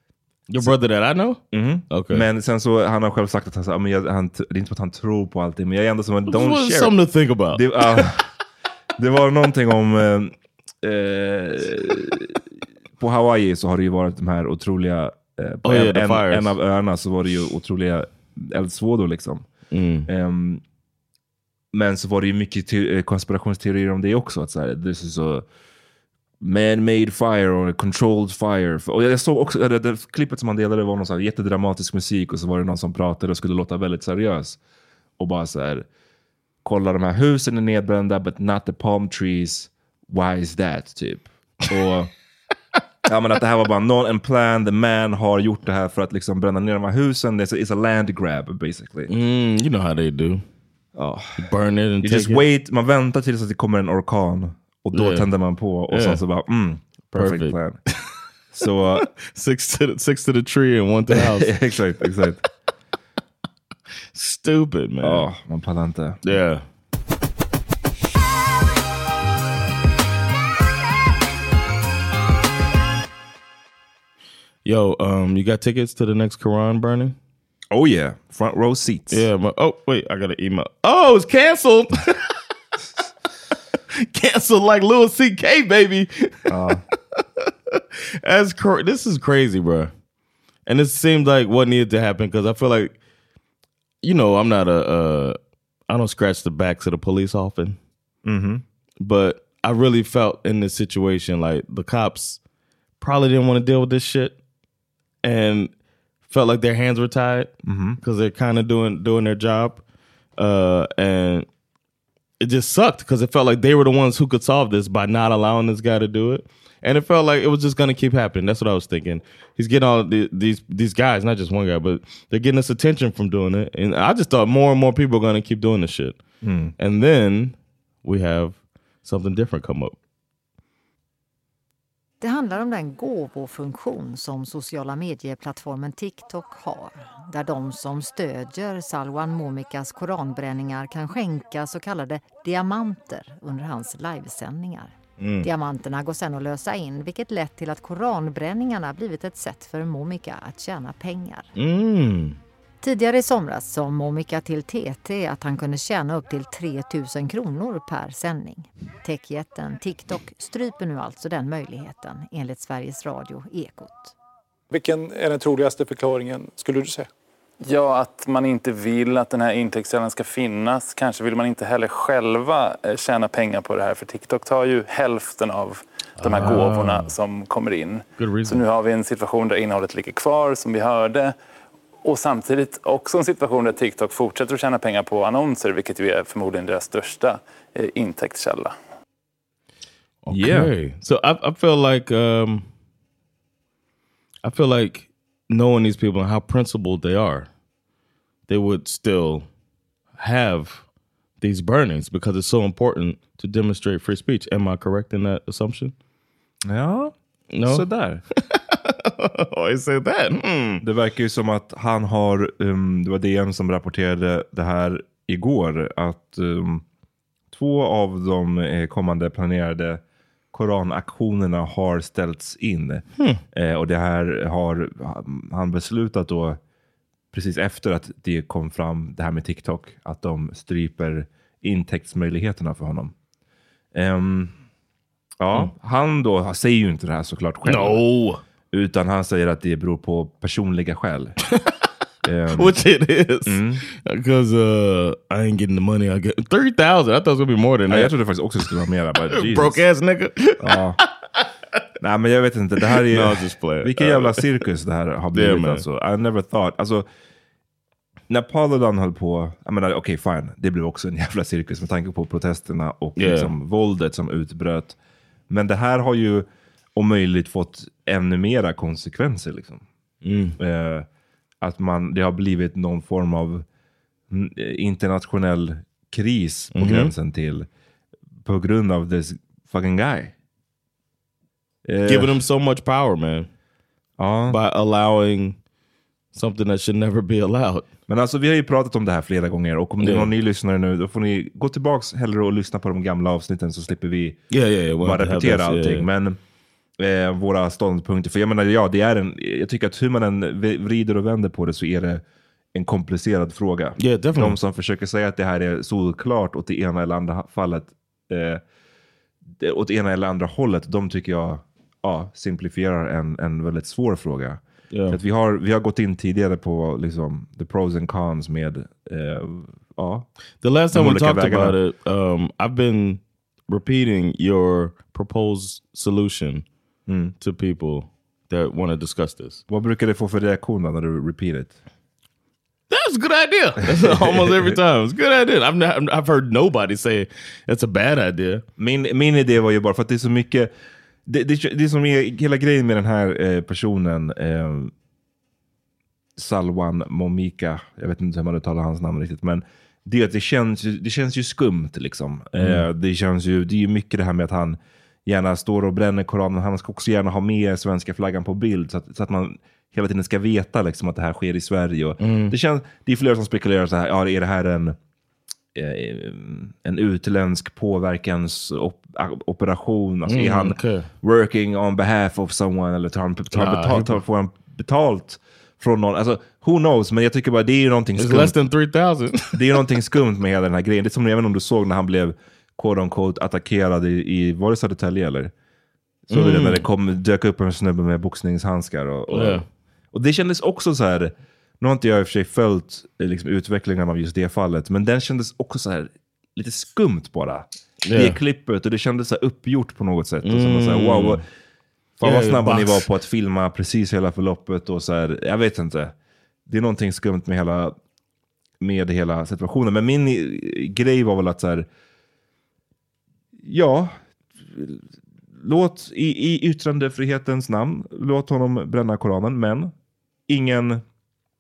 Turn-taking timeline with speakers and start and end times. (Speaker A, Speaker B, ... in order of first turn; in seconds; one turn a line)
Speaker A: 0.5-2.3
Speaker B: 1.5-7.0
Speaker A: 6.3-8.1
Speaker B: 7.5-8.3
Speaker B: 9.0-12.4
Speaker B: 13.0-19.5
Speaker A: 15.6-16.6
Speaker A: 19.7-20.1
Speaker B: 20.1-20.6
Speaker B: 21.7-25.5
Speaker B: 26.4-34.6
Speaker B: 35.2-35.9
Speaker B: 36.6-42.1
Speaker B: 43.1-49.1
Speaker A: 49.1-50.5
Speaker B: 51.0-51.4
Speaker A: 51.4-52.4
Speaker B: 52.0-57.8
Speaker A: 54.9-55.3
Speaker A: 55.9-56.2
Speaker A: 57.1-58.1
Speaker B: 58.5-59.1
Speaker A: 59.0-61.5
Speaker B: 61.1-62.4
Speaker A: 64.1-65.3
Speaker B: 65.0-66.2
Speaker A: 66.2-66.6
Speaker A: 74.7-77.2
Speaker B: 77.7-79.2
Speaker A: 79.1-82.3
Speaker A: 84.0-86.5
Speaker B: 86.5-86.8
Speaker A: 87.2-89.9
Speaker A: 90.7-93.0
Speaker A: 94.0-95.4
Speaker A: 95.9-97.8
Speaker B: 98.2-98.6
Speaker A: 99.0-102.4
Speaker A: 103.0-104.4
Speaker A: 105.2-105.7
Speaker A: 106.3-109.8
Speaker B: 107.6-108.0
Speaker A: 110.4-111.5
Speaker A: 112.4-126.2
Speaker B: 126.4-126.7
Speaker A: 126.8-130.0
Speaker C: 132.2-151.5
Speaker A: 145.2-145.5
Speaker A: 151.6-152.4
Speaker C: 152.8-164.1
Speaker D: 164.7-167.1
Speaker E: 167.6-181.4
Speaker A: 176.2-177.1
Speaker A: 178.2-178.6
Speaker E: 182.0-188.8
Speaker A: 190.2-192.7
Speaker B: 190.3-190.7
Speaker A: 194.4-197.5
Speaker A: 198.5-199.5
Speaker A: 200.2-200.8
Speaker A: 201.4-205.9
Speaker B: 206.7-208.2
Speaker A: 207.5-207.8
Speaker A: 208.5-210.8
Speaker B: 210.8-216.8
Speaker B: 217.5-226.6
Speaker A: 223.2-223.4
Speaker B: 227.3-233.1
Speaker B: 233.9-234.6
Speaker B: 235.4-238.0
Speaker A: 237.7-238.4
Speaker B: 238.7-241.4
Speaker B: 242.2-242.8
Speaker A: 242.5-248.1
Speaker B: 243.5-243.8
Speaker B: 247.9-249.8
Speaker A: 249.3-251.4
Speaker B: 250.6-251.0
Speaker B: 252.0-257.1
Speaker A: 252.9-254.5
Speaker A: 255.3-255.8
Speaker B: 258.3-265.0
Speaker A: 263.2-263.5
Speaker B: 265.5-269.9
Speaker A: 270.2-270.6
Speaker B: 270.6-271.1
Speaker B: 271.6-273.7
Speaker B: 274.3-277.7
Speaker A: 276.7-277.1
Speaker B: 278.4-280.3
Speaker B: 281.9-282.3
Speaker A: 282.1-283.5
Speaker B: 284.2-284.6
Speaker A: 284.5-285.6
Speaker A: 286.3-287.9
Speaker B: 288.1-294.4
Speaker A: 290.0-290.3
Speaker A: 294.5-296.1
Speaker B: 295.0-296.4
Speaker B: 297.0-302.2
Speaker B: 302.7-308.6
Speaker A: 304.0-304.6
Speaker B: 309.6-320.3
Speaker A: 314.9-315.2
Speaker A: 320.6-326.6
Speaker B: 320.9-321.8
Speaker B: 327.1-327.3
Speaker A: 327.4-329.6
Speaker B: 329.7-331.8
Speaker A: 332.9-338.6
Speaker B: 334.0-334.8
Speaker B: 338.8-340.7
Speaker B: 341.3-344.9
Speaker B: 346.4-365.0
Speaker A: 352.6-352.9
Speaker A: 362.2-362.5
Speaker B: 365.8-378.6
Speaker A: 370.3-371.1
Speaker A: 373.5-374.2
Speaker A: 378.2-379.6
Speaker B: 379.5-385.5
Speaker B: 386.3-401.4
Speaker A: 386.3-386.8
Speaker A: 389.3-389.7
Speaker A: 398.0-398.4
Speaker A: 400.4-401.4
Speaker B: 402.2-406.1
Speaker A: 402.2-403.1
Speaker B: 406.7-408.0
Speaker B: 408.8-411.9
Speaker B: 413.6-419.9
Speaker B: 420.5-421.0